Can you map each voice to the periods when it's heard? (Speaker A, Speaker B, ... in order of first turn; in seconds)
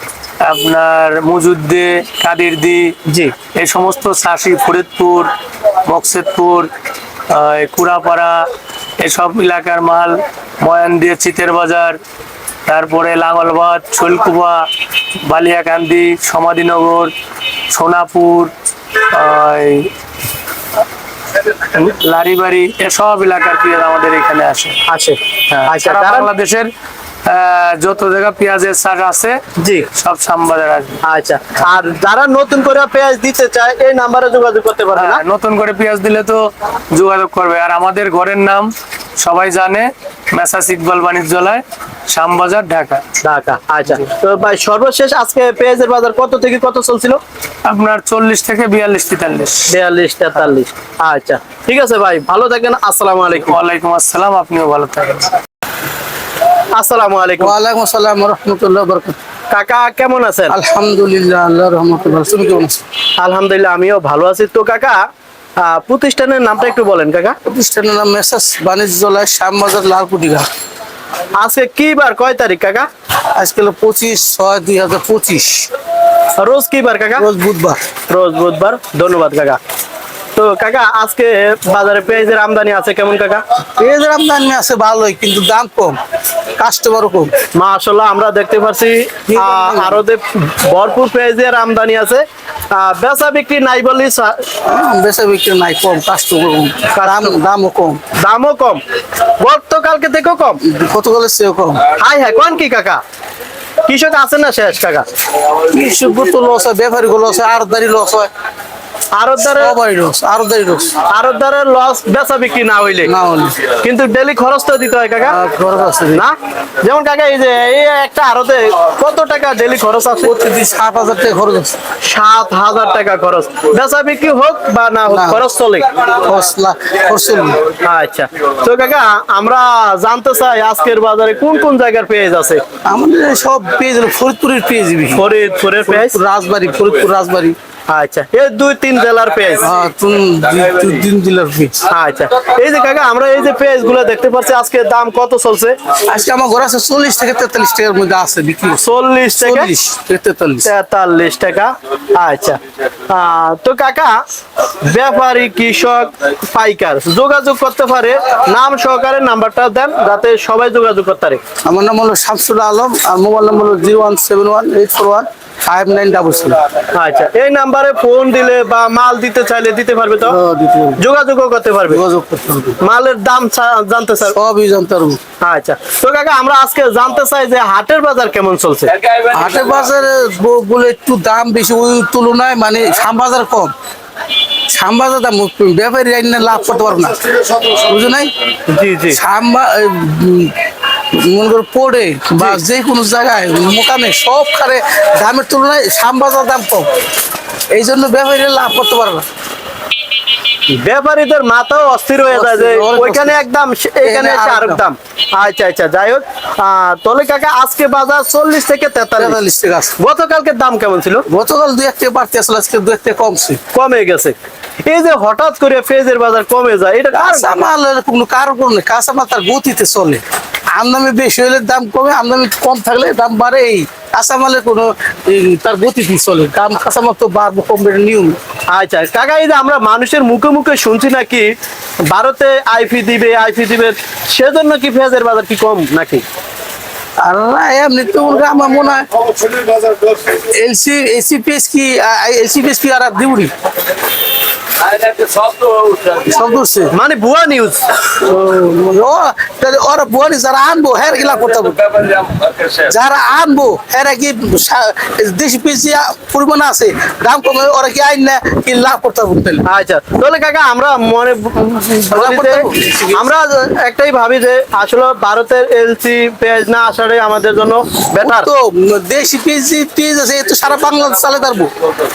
Speaker A: 0.4-3.0, 3.5-5.3, 5.9-6.7, 7.3-8.5, 9.0-12.0, 12.7-14.7, 15.2-17.1, 17.7-18.5, 19.1-19.9, 21.4-24.8, 25.5-26.7, 27.2-29.4, 29.9-31.0, 35.0-43.0, 47.6-49.7, 53.4-55.3
Speaker B: 3.1-3.3, 24.9-26.3, 29.6-29.9, 31.0-35.2, 43.2-47.2, 49.7-53.5, 56.8-57.5, 59.5-60.6, 63.2-65.0, 65.6-67.3, 71.4-72.9, 76.4-77.3, 78.1-79.6, 80.3-83.4, 87.6-94.4, 96.9-97.4, 98.2-98.8, 99.4-100.6, 102.0-103.0, 103.9-105.0, 109.2-109.8, 111.1-113.1, 113.7-115.4, 116.1-120.3, 122.0-125.9, 127.8-132.6, 135.1-136.2, 137.9-139.7, 141.9-145.8, 148.8-149.7, 150.7-154.2, 154.8-161.4, 166.9-170.4, 171.0-172.0, 172.8-174.4, 175.4-178.9, 188.7-189.2, 192.4-192.6, 200.7-209.4, 210.0-211.2, 213.7-217.7, 228.7-231.5, 232.1-236.2, 246.9-247.8, 259.6-268.5
Speaker C: 57.4-59.2, 60.5-62.8, 67.5-70.5, 73.3-75.7, 77.2-77.8, 83.8-86.0, 86.6-87.3, 89.3-90.0, 94.6-98.0, 100.6-101.9, 105.7-108.3, 109.6-111.0, 113.1-113.6, 115.2-116.2, 120.2-121.8, 125.1-125.4, 126.2-127.6, 132.8-135.2, 135.8-137.6, 139.6-141.8, 146.1-150.7, 161.6-166.6, 170.3-171.0, 171.9-172.8, 174.3-175.2, 179.3-183.7, 184.7-188.3, 189.1-190.6, 191.1-196.9, 197.7-199.3, 202.3-203.4, 204.0-204.8, 209.2-209.9, 211.3-213.6, 217.1-228.4, 237.2-243.5, 245.4-246.9, 248.2-259.6, 262.1-263.2, 268.2-271.7